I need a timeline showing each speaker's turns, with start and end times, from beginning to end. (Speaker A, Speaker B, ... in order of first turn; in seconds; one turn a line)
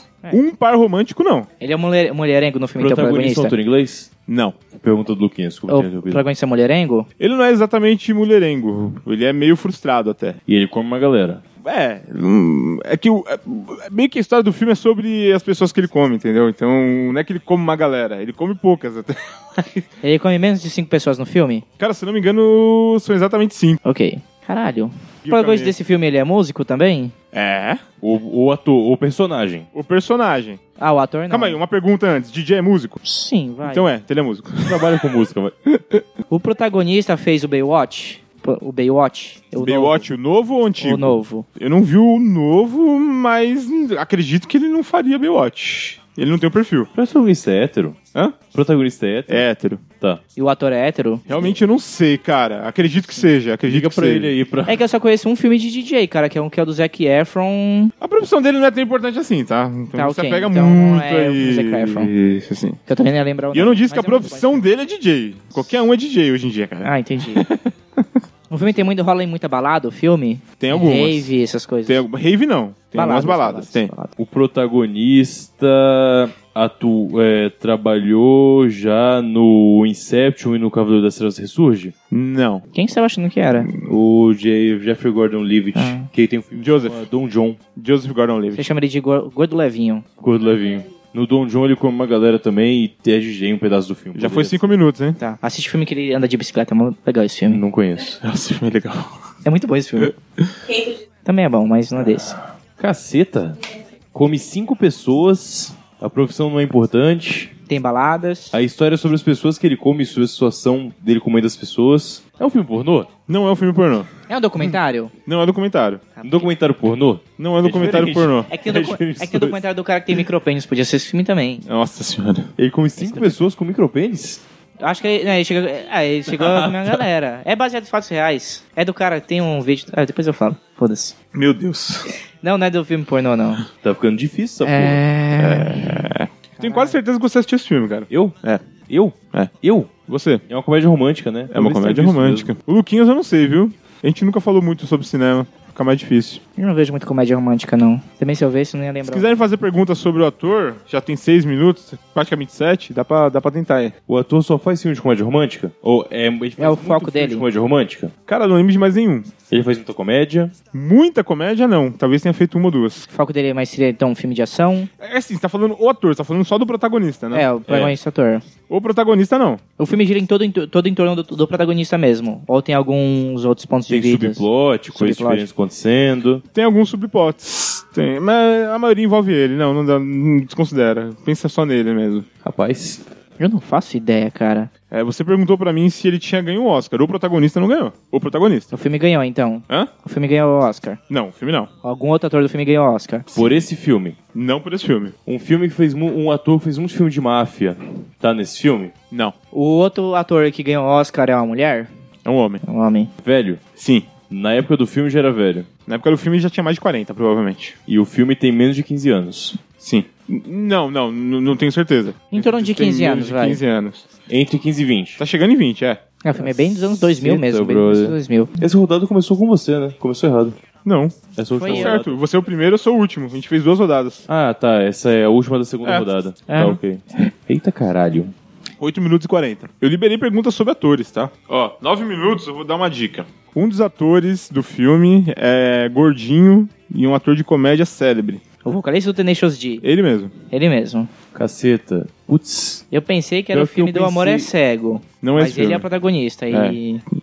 Speaker A: 0.3-1.5
Speaker B: 1.6-3.5
Speaker C: 2.8-4.1
Speaker A: 4.3-4.6
Speaker C: 4.7-6.2
Speaker B: 5.7-7.1
Speaker A: 7.2-10.4
Speaker C: 10.5-11.4
Speaker A: 11.6-19.8
Speaker B: 20.0-21.6
Speaker A: 21.8-23.8
Speaker B: 23.9-27.1
Speaker A: 25.2-25.8
Speaker A: 27.3-27.8
Speaker C: 28.0-29.7
Speaker A: 29.7-30.6
Speaker B: 30.8-31.6
Speaker A: 31.3-33.0
Speaker B: 33.0-33.9
Speaker A: 33.6-35.0
Speaker C: 34.6-35.5
Speaker A: 35.7-36.0
Speaker B: 36.3-40.1
Speaker A: 39.6-46.9
Speaker B: 40.8-41.5
Speaker C: 47.0-48.0
Speaker C: 48.5-49.5
Speaker A: 49.3-49.8
Speaker B: 50.4-51.3
Speaker A: 51.3-54.3
Speaker C: 53.7-54.8
Speaker B: 54.7-57.9
Speaker A: 58.0-62.8
Speaker B: 60.0-62.1
Speaker B: 62.9-64.6
Speaker A: 63.5-68.0
Speaker B: 66.8-67.5
Speaker B: 68.5-72.0
Speaker A: 70.6-71.3
Speaker A: 71.9-73.9
Speaker B: 73.0-74.1
Speaker C: 74.2-81.9
Speaker A: 82.1-82.7
Speaker B: 82.7-83.7
Speaker C: 83.8-87.6
Speaker B: 85.8-86.1
Speaker A: 86.6-87.0
Speaker A: 87.8-88.7
Speaker B: 88.5-90.0
Speaker C: 90.2-94.7
Speaker A: 94.2-95.2
Speaker B: 95.2-97.6
Speaker C: 97.5-98.2
Speaker A: 98.2-99.1
Speaker B: 99.5-100.2
Speaker B: 101.2-102.4
Speaker C: 102.0-103.6
Speaker C: 104.1-107.5
Speaker B: 107.7-108.6
Speaker C: 108.5-113.1
Speaker A: 113.3-114.1
Speaker B: 114.3-115.1
Speaker A: 115.3-116.0
Speaker B: 116.2-116.5
Speaker C: 116.2-119.6
Speaker A: 117.4-118.5
Speaker B: 118.5-121.6
Speaker A: 121.7-122.5
Speaker C: 122.6-124.4
Speaker B: 123.0-123.4
Speaker B: 124.8-131.1
Speaker C: 126.3-127.0
Speaker A: 131.3-132.1
Speaker B: 132.4-133.7
Speaker C: 133.8-135.0
Speaker B: 134.6-136.1
Speaker A: 135.4-138.6
Speaker B: 136.6-137.0
Speaker C: 138.1-138.4
Speaker C: 138.9-139.9
Speaker A: 139.3-140.4
Speaker C: 140.5-142.5
Speaker A: 141.5-146.4
Speaker B: 146.6-149.3
Speaker A: 149.1-153.9
Speaker C: 154.1-158.1
Speaker B: 156.6-157.5
Speaker A: 158.3-159.3
Speaker C: 159.5-160.5
Speaker A: 160.7-163.1
Speaker B: 163.1-164.9
Speaker A: 165.0-167.5
Speaker B: 167.3-168.5
Speaker C: 167.7-168.0
Speaker A: 168.7-169.6
Speaker B: 169.8-175.5
Speaker C: 173.9-176.4
Speaker A: 176.5-182.3
Speaker C: 182.4-183.0
Speaker B: 183.4-184.7
Speaker A: 184.9-188.7
Speaker B: 188.7-191.0
Speaker A: 191.1-191.7
Speaker B: 191.8-193.3
Speaker C: 193.3-194.2
Speaker A: 194.3-195.2
Speaker C: 195.3-198.9
Speaker B: 199.5-201.9
Speaker A: 202.2-202.6
Speaker B: 202.6-203.1
Speaker C: 203.2-203.6
Speaker A: 203.8-204.1
Speaker C: 204.3-205.7
Speaker A: 205.9-207.8
Speaker C: 207.9-209.6
Speaker A: 209.8-214.1
Speaker B: 212.3-213.6
Speaker C: 214.3-215.2
Speaker A: 215.2-216.0
Speaker B: 216.2-218.5
Speaker C: 216.4-220.6
Speaker A: 220.8-224.3
Speaker C: 221.4-222.2
Speaker B: 221.6-222.0
Speaker C: 224.3-228.3
Speaker B: 226.5-226.8
Speaker A: 228.8-238.4
Speaker B: 238.6-239.8
Speaker A: 239.8-240.3
Speaker B: 240.5-241.1
Speaker C: 241.3-242.8
Speaker B: 242.9-247.0
Speaker C: 243.5-244.5
Speaker A: 245.2-245.8
Speaker A: 246.5-246.8